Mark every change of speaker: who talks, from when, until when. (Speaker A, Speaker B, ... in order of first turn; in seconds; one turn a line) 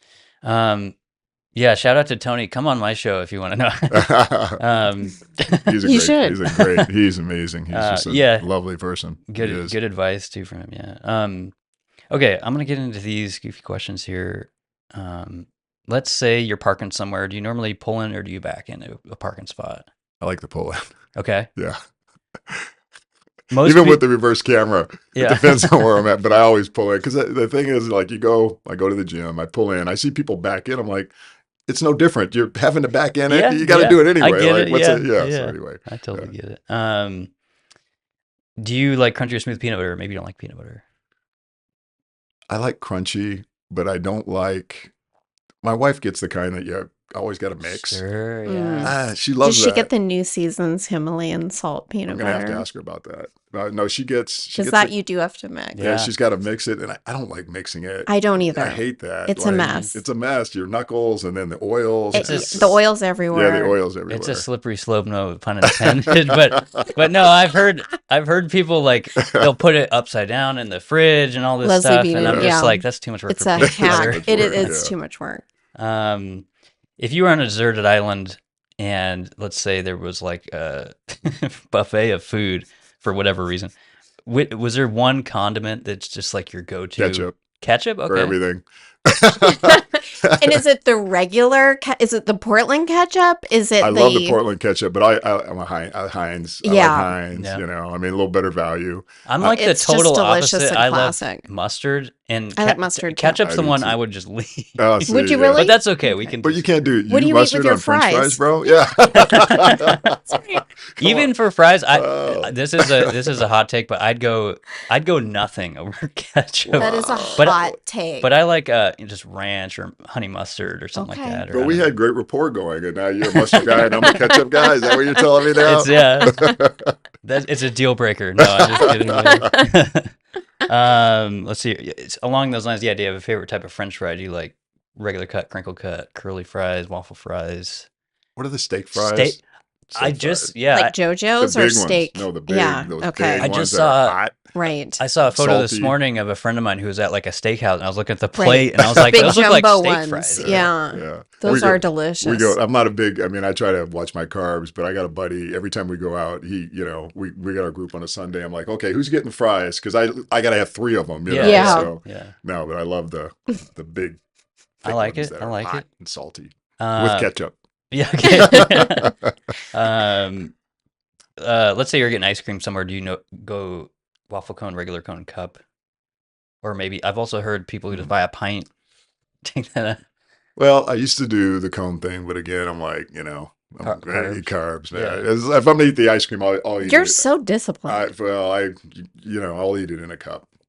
Speaker A: 0.4-0.9
Speaker A: 1.5-5.8
Speaker B: 3.9-4.6
Speaker B: 5.6-9.7
Speaker C: 5.8-6.5
Speaker A: 6.5-6.8
Speaker A: 7.7-8.5
Speaker A: 9.3-11.5
Speaker A: 12.1-19.9
Speaker B: 20.2-20.8
Speaker A: 21.1-21.5
Speaker A: 23.5-24.0
Speaker B: 23.6-31.1
Speaker A: 25.1-26.0
Speaker B: 31.7-36.3
Speaker A: 33.3-37.3
Speaker A: 38.6-40.8
Speaker B: 42.5-44.9
Speaker B: 45.6-48.0
Speaker A: 47.6-49.0
Speaker C: 48.5-52.6
Speaker B: 48.8-49.9
Speaker B: 52.1-54.9
Speaker C: 54.5-55.8
Speaker A: 55.7-56.1
Speaker B: 55.8-62.8
Speaker C: 58.1-60.0
Speaker A: 59.6-59.9
Speaker C: 62.1-63.8
Speaker A: 62.1-62.8
Speaker B: 63.3-64.4
Speaker A: 64.1-74.7
Speaker B: 65.7-66.8
Speaker B: 69.2-69.4
Speaker C: 71.6-75.4
Speaker B: 72.2-72.5
Speaker B: 73.6-74.9
Speaker A: 75.8-76.5
Speaker A: 77.0-83.7
Speaker A: 84.2-88.4
Speaker B: 87.0-87.3
Speaker B: 88.1-90.6
Speaker C: 89.4-94.4
Speaker B: 93.8-99.0
Speaker C: 96.6-97.1
Speaker A: 97.3-97.6
Speaker A: 99.2-106.7
Speaker C: 99.4-101.4
Speaker C: 102.5-103.4
Speaker B: 103.4-104.0
Speaker B: 104.8-105.7
Speaker C: 105.0-106.4
Speaker B: 106.4-111.3
Speaker C: 107.1-108.4
Speaker A: 109.1-110.1
Speaker A: 111.0-117.7
Speaker B: 111.9-113.2
Speaker B: 116.7-117.5
Speaker C: 116.8-118.3
Speaker A: 118.2-121.9
Speaker C: 121.0-121.5
Speaker B: 121.5-126.9
Speaker C: 123.3-124.7
Speaker C: 125.6-126.6
Speaker A: 125.6-126.5
Speaker A: 127.2-137.8
Speaker B: 128.4-129.5
Speaker B: 138.4-139.4
Speaker A: 138.9-139.4
Speaker B: 139.9-140.5
Speaker A: 139.9-140.9
Speaker C: 140.7-143.5
Speaker B: 141.4-144.4
Speaker A: 143.4-144.2
Speaker C: 144.5-145.0
Speaker A: 145.0-150.7
Speaker B: 145.3-145.9
Speaker C: 148.3-152.6
Speaker B: 148.8-149.4
Speaker B: 150.3-164.2
Speaker A: 161.2-162.3
Speaker C: 161.4-161.9
Speaker B: 164.8-167.5
Speaker A: 164.8-165.8
Speaker A: 166.8-167.3
Speaker A: 167.9-169.2
Speaker B: 168.2-169.3
Speaker A: 169.7-170.5
Speaker A: 171.4-175.6
Speaker A: 176.6-178.7
Speaker A: 179.4-180.0
Speaker B: 180.6-187.2
Speaker A: 183.8-185.3
Speaker C: 186.8-188.1
Speaker B: 187.8-190.5